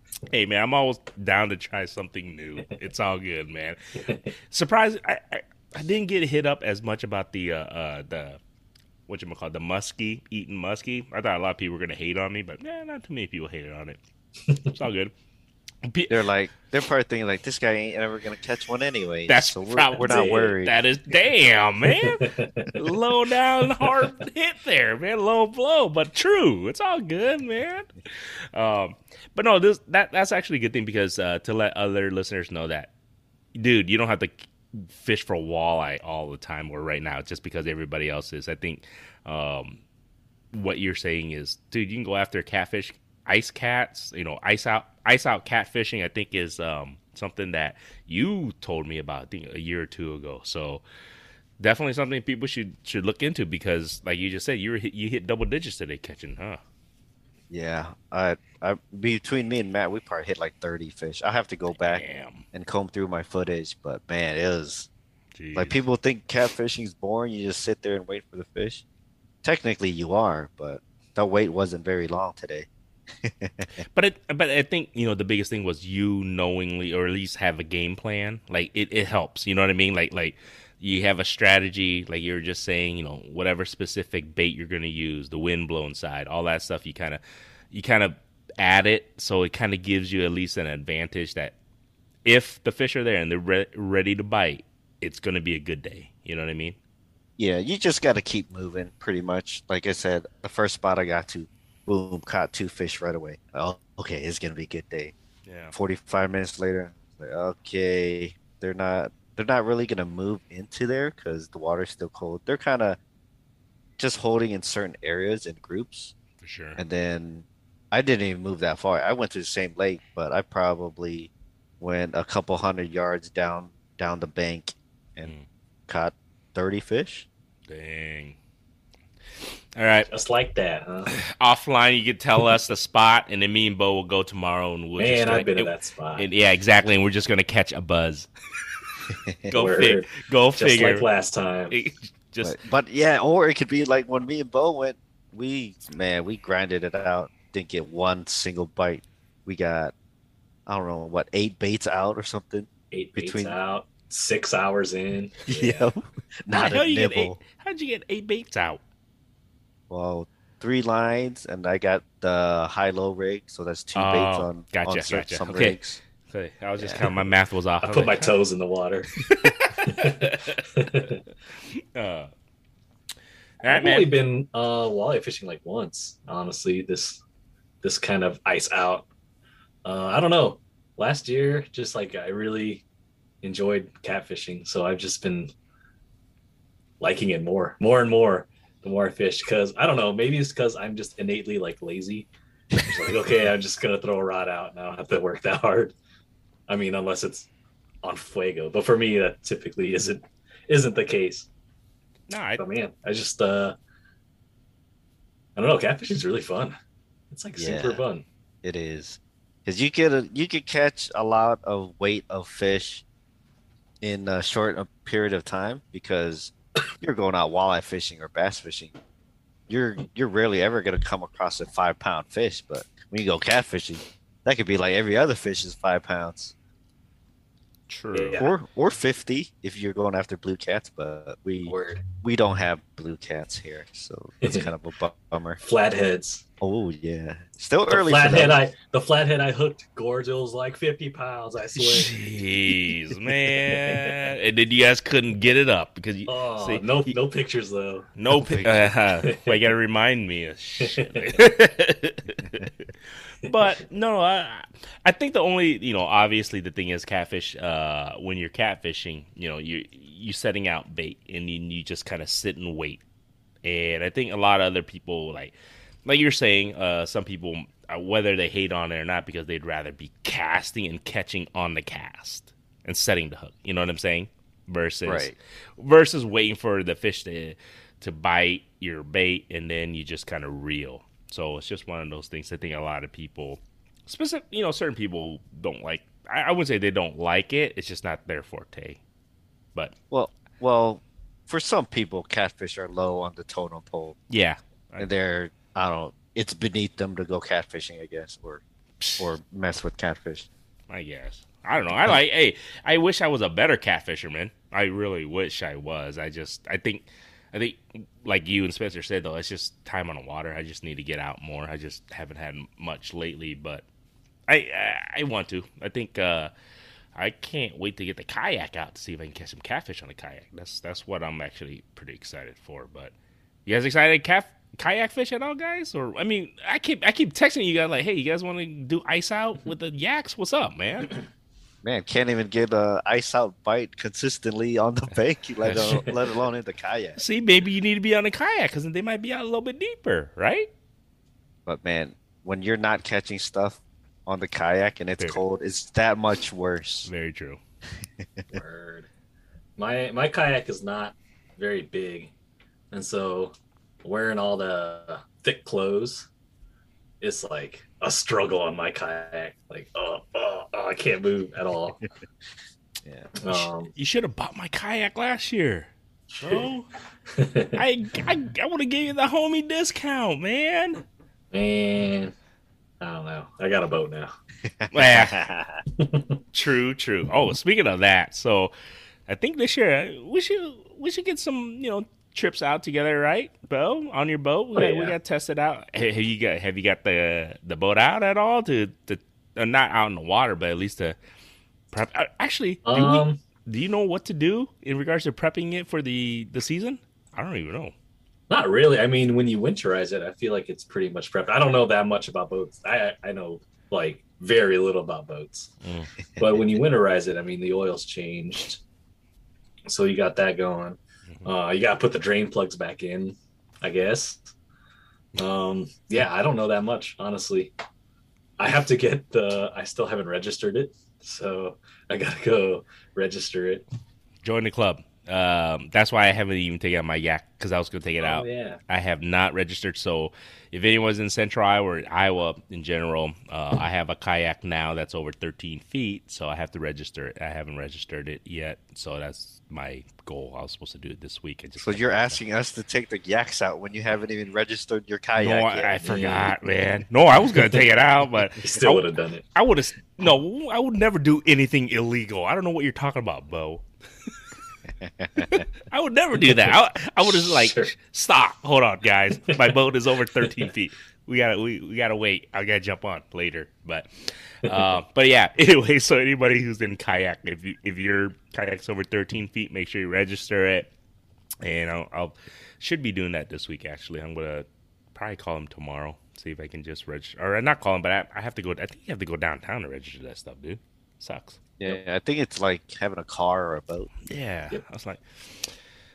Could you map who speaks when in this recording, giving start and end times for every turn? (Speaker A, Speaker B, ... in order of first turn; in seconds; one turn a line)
Speaker A: 0.3-3.8
Speaker A: 4.5-8.4
Speaker A: 9.1-14.0
Speaker B: 14.5-14.7
Speaker A: 14.7-15.1
Speaker A: 15.8-16.2
Speaker C: 16.1-20.8
Speaker A: 19.3-32.9
Speaker B: 20.0-20.5
Speaker B: 22.0-22.7
Speaker B: 23.8-24.1
Speaker A: 33.5-39.8
Speaker A: 40.5-50.8
Speaker A: 51.6-56.6
Speaker C: 57.5-64.9
Speaker A: 61.8-62.5
Speaker A: 65.4-65.8
Speaker C: 65.5-68.8
Speaker C: 69.4-73.7
Speaker A: 73.7-91.5
Speaker A: 92.2-96.8
Speaker C: 97.4-105.1
Speaker A: 105.5-105.7
Speaker C: 105.7-113.0
Speaker C: 114.0-116.1
Speaker A: 116.4-116.8
Speaker C: 116.8-125.3
Speaker C: 125.9-127.2
Speaker A: 127.7-128.4
Speaker A: 129.8-130.1
Speaker B: 130.1-131.1
Speaker A: 131.3-138.3
Speaker B: 135.0-136.3
Speaker C: 139.1-139.5
Speaker A: 139.5-141.1
Speaker B: 139.5-141.8
Speaker A: 141.7-142.6
Speaker C: 142.4-149.9
Speaker C: 150.7-153.6
Speaker B: 152.9-155.9
Speaker C: 155.5-157.4
Speaker A: 156.5-158.8
Speaker C: 159.9-166.0
Speaker A: 163.9-168.3
Speaker C: 166.8-167.1
Speaker B: 167.8-169.1
Speaker A: 169.3-171.1
Speaker B: 169.8-171.2
Speaker A: 171.7-172.3
Speaker A: 173.6-174.1
Speaker B: 173.7-177.2
Speaker B: 177.8-179.1
Speaker B: 179.8-182.8
Speaker B: 183.4-185.5
Speaker B: 187.0-195.9
Speaker B: 196.7-197.5
Speaker B: 198.0-201.5
Speaker A: 202.3-202.6
Speaker B: 202.6-203.8
Speaker B: 205.6-206.8
Speaker B: 207.3-208.2
Speaker C: 207.6-208.0
Speaker C: 208.6-213.0
Speaker C: 214.0-218.9
Speaker C: 219.7-226.5
Speaker A: 227.9-228.4
Speaker B: 228.1-228.5
Speaker C: 228.3-235.6
Speaker B: 231.7-232.0
Speaker B: 235.6-236.4
Speaker C: 236.6-238.6
Speaker B: 237.9-242.7
Speaker A: 241.8-247.2
Speaker B: 243.3-244.2
Speaker B: 246.3-248.1
Speaker A: 248.2-252.9
Speaker C: 248.4-248.9
Speaker B: 249.2-249.6
Speaker B: 250.8-251.2
Speaker A: 253.4-263.0
Speaker A: 263.6-289.0
Speaker C: 275.1-275.3
Speaker C: 290.1-294.2
Speaker A: 294.3-295.1
Speaker C: 295.0-298.6
Speaker A: 299.0-299.3
Speaker C: 299.2-300.5
Speaker A: 300.9-313.8
Speaker A: 314.5-316.5
Speaker A: 317.1-323.1
Speaker A: 323.6-331.1
Speaker C: 331.8-337.2
Speaker A: 335.6-336.2
Speaker A: 337.2-340.7
Speaker C: 341.6-347.1
Speaker A: 347.0-347.6
Speaker C: 348.2-348.4
Speaker B: 348.5-349.1
Speaker B: 349.8-352.3
Speaker B: 352.9-356.3
Speaker B: 357.2-362.0
Speaker C: 363.0-363.3
Speaker B: 363.4-363.9
Speaker A: 363.9-366.9
Speaker B: 366.4-366.7
Speaker B: 367.3-367.8
Speaker A: 367.7-371.0
Speaker B: 371.5-372.3
Speaker B: 373.0-374.3
Speaker C: 374.6-375.8
Speaker A: 374.9-375.4
Speaker B: 376.0-376.3
Speaker A: 376.5-378.7
Speaker A: 379.3-391.2
Speaker B: 384.8-385.1
Speaker A: 391.9-397.9
Speaker B: 392.9-393.4
Speaker B: 398.5-405.7
Speaker A: 405.8-406.1
Speaker B: 406.4-408.8
Speaker B: 409.9-414.4
Speaker B: 415.4-417.7
Speaker B: 418.6-423.9
Speaker A: 424.4-442.4
Speaker B: 428.2-428.8
Speaker C: 441.8-446.5
Speaker A: 445.4-453.8
Speaker B: 446.0-446.5
Speaker B: 448.6-449.4
Speaker C: 455.0-455.6
Speaker A: 455.4-470.9
Speaker B: 457.3-457.9
Speaker B: 459.5-459.7
Speaker A: 471.6-481.6
Speaker C: 481.8-484.1
Speaker A: 484.3-485.7